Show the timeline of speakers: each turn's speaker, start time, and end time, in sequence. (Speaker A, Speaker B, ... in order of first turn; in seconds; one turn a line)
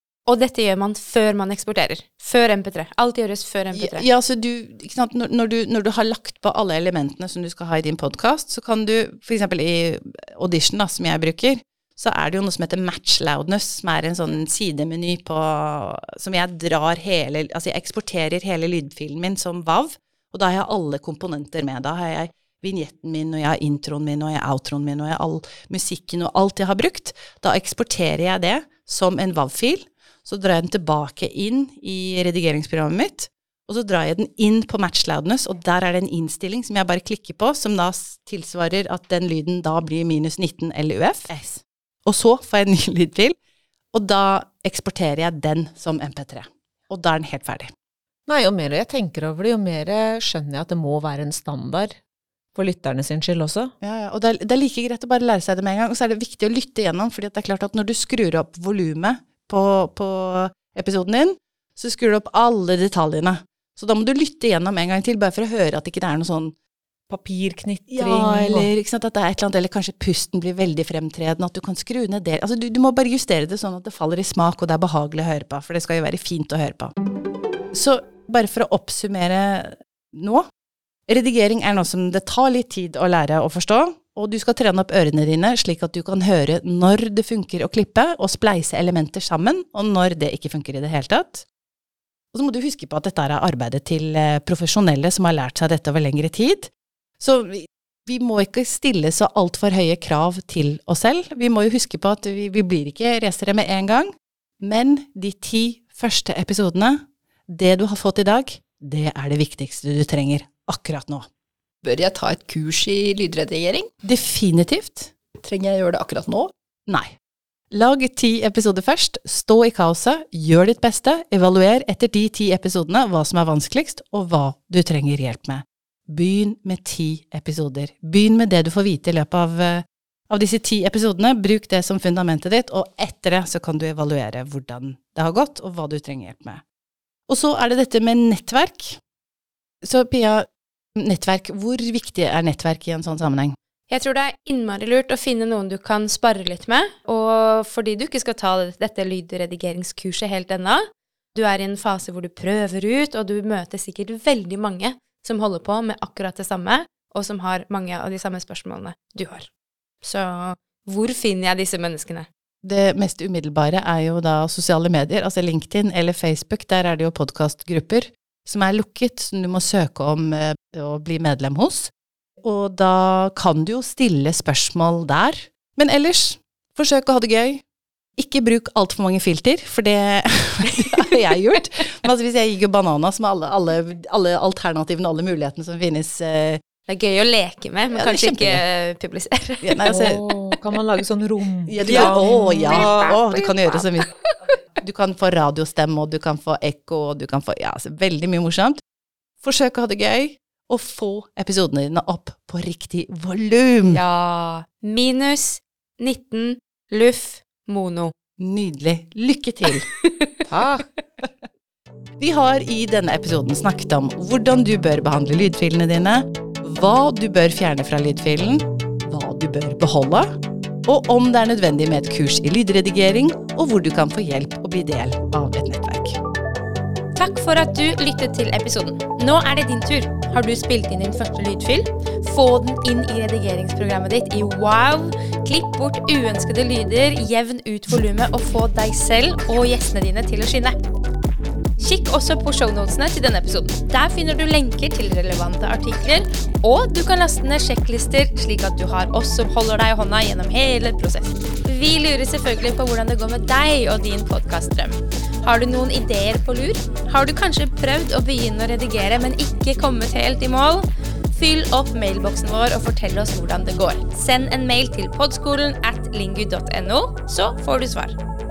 Speaker A: 0.3-4.1
Speaker B: 3.7-43.3
Speaker B: 43.9-47.7
Speaker C: 48.3-52.0
Speaker C: 52.5-53.7
Speaker B: 53.8-66.5
Speaker C: 67.1-68.7
Speaker B: 67.9-76.9
Speaker B: 77.7-80.4
Speaker B: 81.1-91.5
Speaker B: 92.3-104.1
Speaker B: 104.6-107.0
Speaker B: 107.5-111.2
Speaker D: 111.8-113.9
Speaker B: 114.0-115.1
Speaker D: 115.4-116.5
Speaker B: 117.7-136.6
Speaker B: 137.3-139.0
Speaker B: 139.8-140.4
Speaker B: 141.0-143.6
Speaker A: 143.9-150.8
Speaker A: 151.3-159.5
Speaker A: 160.0-162.3
Speaker B: 162.6-171.9
Speaker B: 172.4-177.6
Speaker B: 178.2-186.6
Speaker A: 186.9-189.9
Speaker B: 187.9-188.6
Speaker B: 189.6-190.2
Speaker C: 189.9-193.1
Speaker B: 191.7-194.1
Speaker A: 191.8-194.4
Speaker B: 194.8-198.8
Speaker B: 199.4-204.0
Speaker A: 203.9-208.1
Speaker B: 208.4-209.9
Speaker A: 209.7-210.3
Speaker C: 210.5-210.8
Speaker B: 212.2-220.2
Speaker B: 220.8-226.2
Speaker A: 227.1-240.8
Speaker A: 241.8-268.2